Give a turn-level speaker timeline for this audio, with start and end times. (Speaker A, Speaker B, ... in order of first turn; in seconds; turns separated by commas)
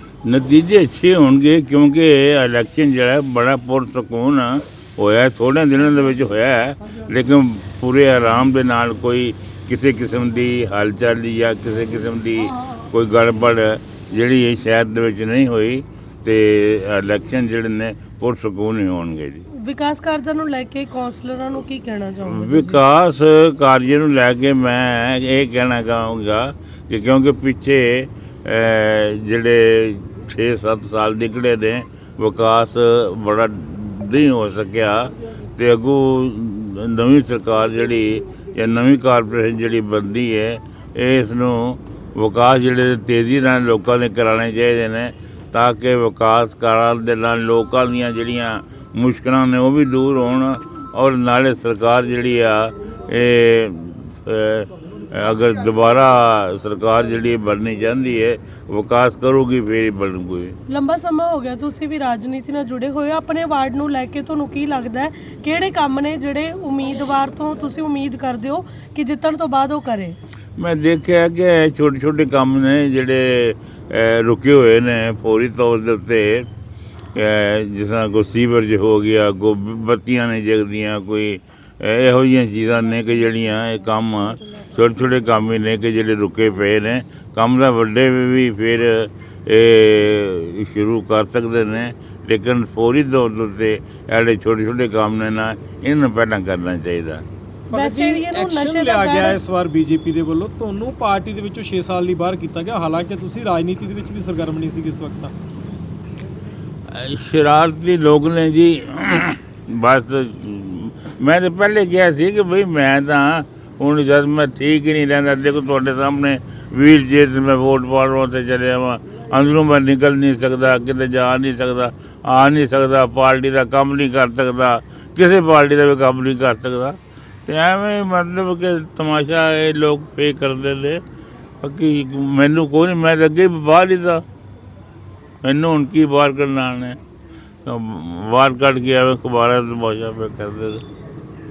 Speaker A: 0.3-19.4, Speaker B: 19.6-22.8, Speaker A: 22.3-60.6, Speaker B: 60.7-70.2, Speaker A: 70.6-76.5, Speaker A: 77.1-97.2, Speaker C: 97.7-105.3, Speaker B: 97.7-99.4, Speaker A: 106.9-131.0, Speaker A: 131.6-134.2, Speaker A: 135.4-137.0, Speaker A: 137.7-140.8